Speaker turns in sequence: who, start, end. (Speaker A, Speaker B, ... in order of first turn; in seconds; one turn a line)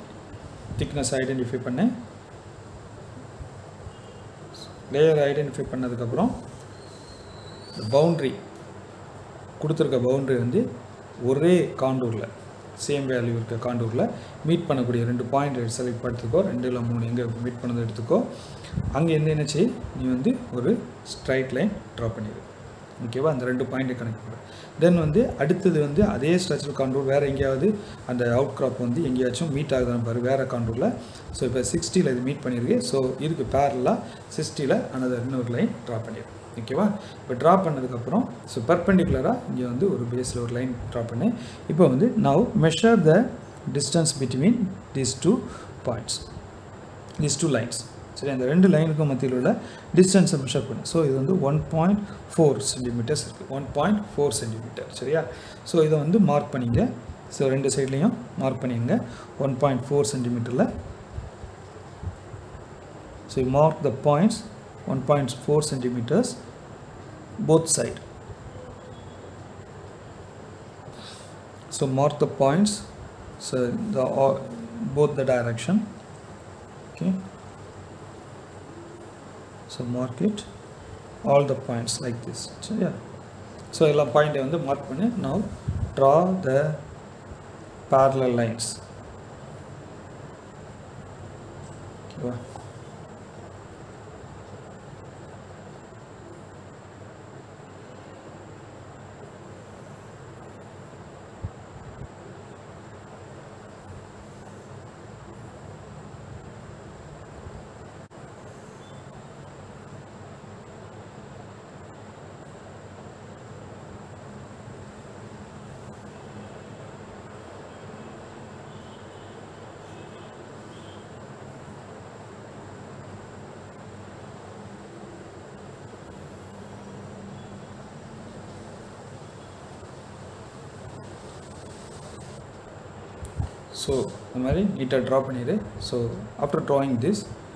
Speaker A: 0.8-1.9
Speaker A: 4.6-6.4
Speaker A: 7.7-8.4
Speaker A: 9.6-10.7
Speaker A: 11.2-18.3
Speaker A: 18.9-22.5
Speaker A: 23.0-46.3
Speaker A: 47.2-60.7
Speaker A: 63.3-66.4
Speaker A: 67.4-68.0
Speaker A: 71.7-72.9
Speaker A: 73.4-75.9
Speaker A: 76.9-77.2
Speaker A: 79.7-80.5
Speaker A: 81.2-83.0
Speaker A: 83.7-86.8
Speaker A: 87.9-88.8
Speaker A: 92.1-92.4
Speaker A: 133.7-137.3